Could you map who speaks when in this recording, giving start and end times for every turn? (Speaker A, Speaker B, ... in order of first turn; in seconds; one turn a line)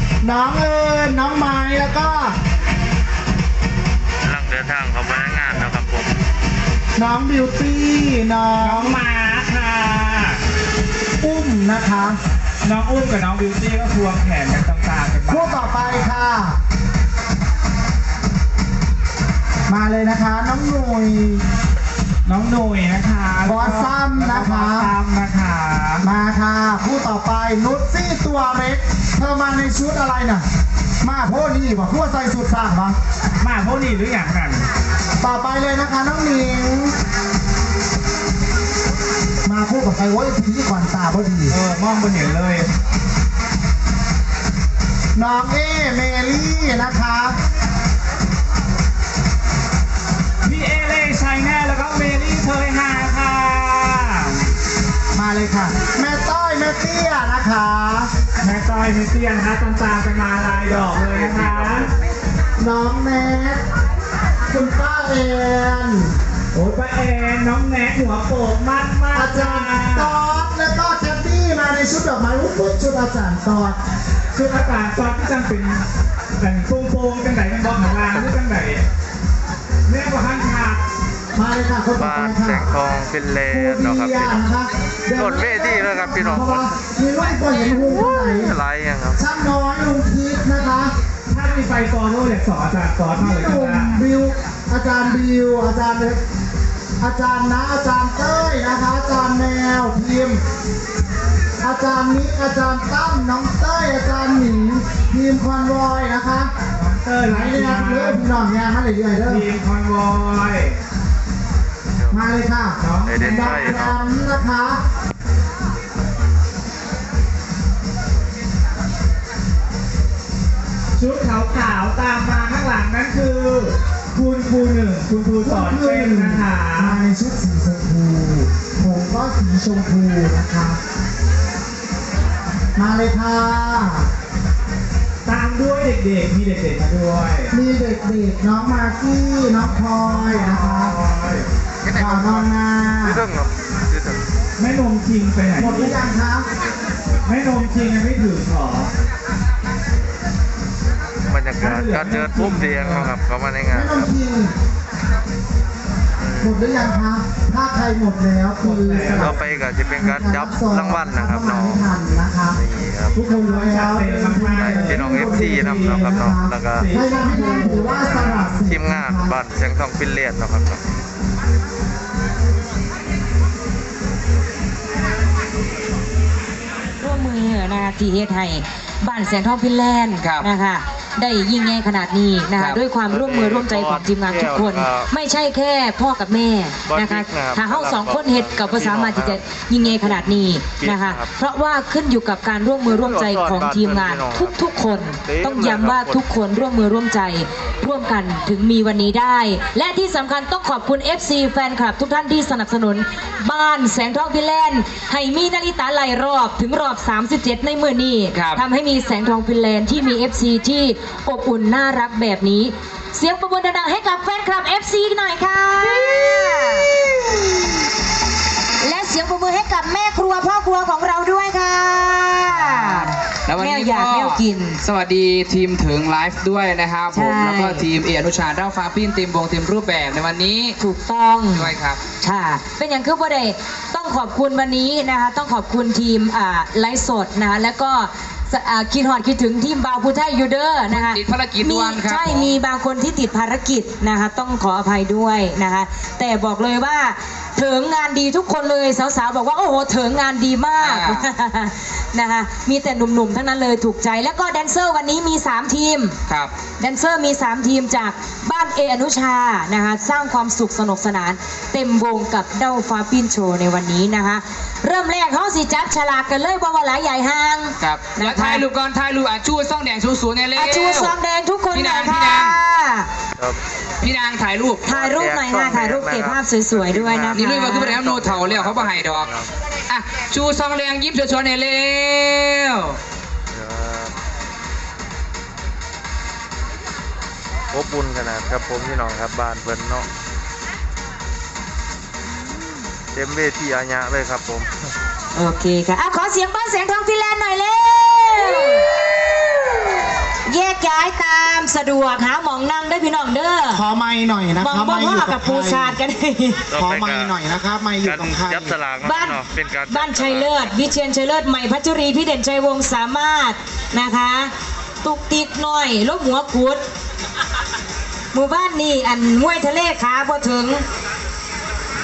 Speaker A: 0.2-2.3
Speaker B: 4.2-6.2
Speaker A: 7.0-8.9
Speaker C: 8.6-10.4
Speaker A: 11.2-12.2
Speaker C: 12.6-16.2
Speaker A: 15.3-16.6
Speaker A: 19.7-21.4
Speaker C: 22.3-26.1
Speaker A: 23.4-24.9
Speaker A: 26.0-30.4
Speaker A: 31.0-33.0
Speaker C: 33.4-34.7
Speaker A: 35.2-37.0
Speaker A: 39.4-41.5
Speaker C: 41.5-42.7
Speaker A: 45.1-47.4
Speaker C: 50.4-54.4
Speaker A: 55.1-58.1
Speaker C: 58.4-61.9
Speaker A: 62.6-63.6
Speaker A: 64.5-66.1
Speaker C: 66.5-70.2
Speaker A: 69.1-73.8
Speaker C: 74.3-75.8
Speaker C: 76.4-78.8
Speaker C: 79.9-80.8
Speaker A: 81.3-82.7
Speaker B: 82.0-84.4
Speaker A: 83.5-88.5
Speaker B: 85.1-86.7
Speaker B: 87.7-89.2
Speaker A: 89.2-90.9
Speaker C: 91.3-94.0
Speaker A: 93.2-96.2
Speaker A: 97.0-100.4
Speaker A: 101.6-106.5
Speaker C: 106.8-108.2
Speaker A: 107.2-109.5
Speaker C: 109.2-110.8
Speaker B: 112.0-112.3
Speaker A: 112.1-114.8
Speaker C: 112.8-113.8
Speaker B: 113.0-114.0
Speaker C: 121.0-127.0
Speaker A: 125.4-130.8
Speaker A: 132.8-134.1
Speaker C: 135.2-137.5
Speaker A: 137.5-141.0
Speaker C: 139.7-141.5
Speaker B: 141.8-144.2
Speaker A: 141.9-143.2
Speaker C: 144.6-146.1
Speaker A: 145.6-146.5
Speaker C: 147.2-148.9
Speaker B: 151.3-154.1
Speaker C: 151.6-153.2
Speaker A: 153.7-154.5
Speaker B: 156.2-156.6
Speaker A: 156.4-159.4
Speaker C: 158.6-159.7
Speaker B: 159.1-161.9
Speaker A: 160.0-162.6
Speaker B: 162.5-163.1
Speaker A: 163.1-169.4
Speaker C: 163.3-166.1
Speaker B: 164.6-166.9
Speaker C: 166.8-168.6
Speaker B: 168.6-170.8
Speaker D: 177.0-216.9
Speaker E: 180.2-180.5
Speaker B: 183.1-185.1
Speaker B: 186.9-190.2
Speaker B: 190.7-191.3
Speaker B: 192.8-194.6
Speaker B: 195.2-196.2
Speaker E: 208.3-208.6
Speaker E: 215.8-217.0
Speaker D: 218.8-224.8
Speaker E: 222.5-230.8
Speaker D: 227.1-227.9
Speaker D: 230.8-256.2
Speaker E: 231.5-232.0
Speaker E: 240.9-242.6
Speaker E: 250.8-251.2
Speaker E: 256.3-256.5
Speaker D: 256.8-268.6
Speaker E: 267.8-271.1
Speaker D: 270.6-273.1
Speaker E: 271.7-272.6
Speaker E: 274.0-274.8
Speaker D: 274.9-278.0
Speaker B: 274.9-279.5
Speaker E: 277.3-279.3
Speaker E: 279.9-283.0
Speaker B: 283.5-284.1
Speaker B: 287.7-290.1
Speaker B: 293.1-294.7
Speaker D: 295.4-298.8
Speaker D: 300.5-303.8
Speaker A: 303.7-306.0
Speaker D: 304.6-306.6
Speaker B: 306.7-307.3
Speaker A: 306.7-308.8
Speaker B: 308.0-310.9
Speaker D: 309.0-314.5
Speaker D: 315.0-316.8
Speaker D: 318.3-320.8